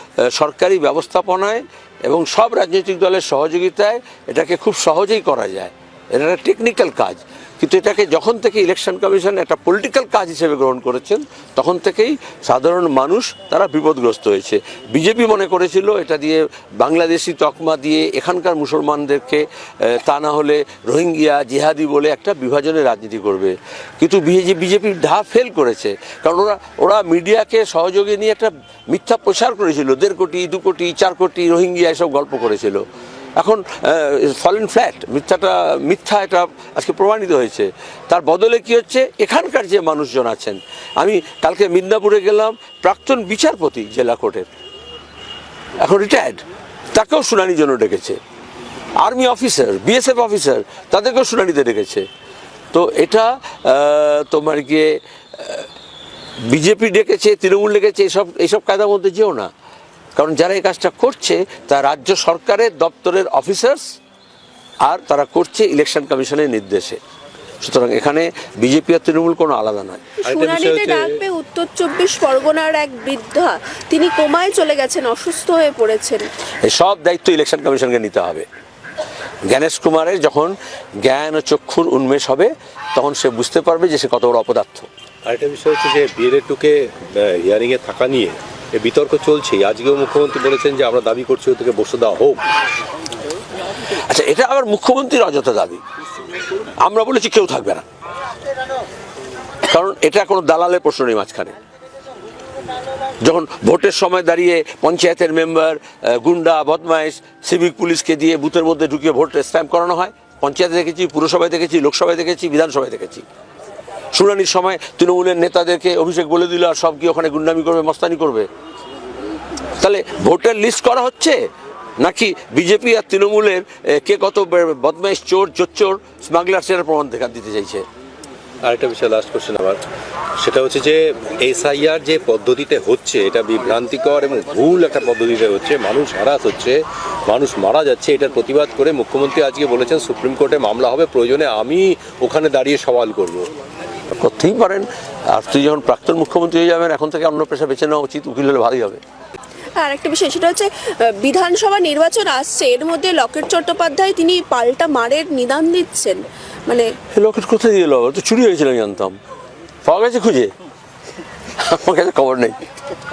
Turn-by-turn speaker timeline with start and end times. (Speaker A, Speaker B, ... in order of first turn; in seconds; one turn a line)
Speaker A: 0.2-32.8
Speaker A: 33.4-44.5
Speaker A: 45.8-46.4
Speaker A: 46.9-48.2
Speaker A: 49.0-52.1
Speaker A: 52.7-55.7
Speaker A: 56.4-59.5
Speaker A: 60.1-63.9
Speaker A: 64.8-67.0
Speaker A: 67.6-70.1
Speaker B: 70.2-76.3
Speaker C: 70.2-71.2
Speaker A: 76.6-78.5
Speaker A: 79.5-84.9
Speaker C: 85.3-92.5
Speaker A: 93.9-95.8
Speaker A: 96.8-97.8
Speaker A: 99.7-101.5
Speaker A: 103.2-113.2
Speaker A: 114.1-118.5
Speaker A: 119.8-121.4
Speaker A: 122.0-127.8
Speaker C: 128.6-129.8
Speaker C: 130.4-143.5
Speaker A: 144.2-149.0
Speaker B: 149.8-156.9
Speaker A: 157.1-159.2
Speaker A: 159.8-160.5
Speaker A: 161.6-162.6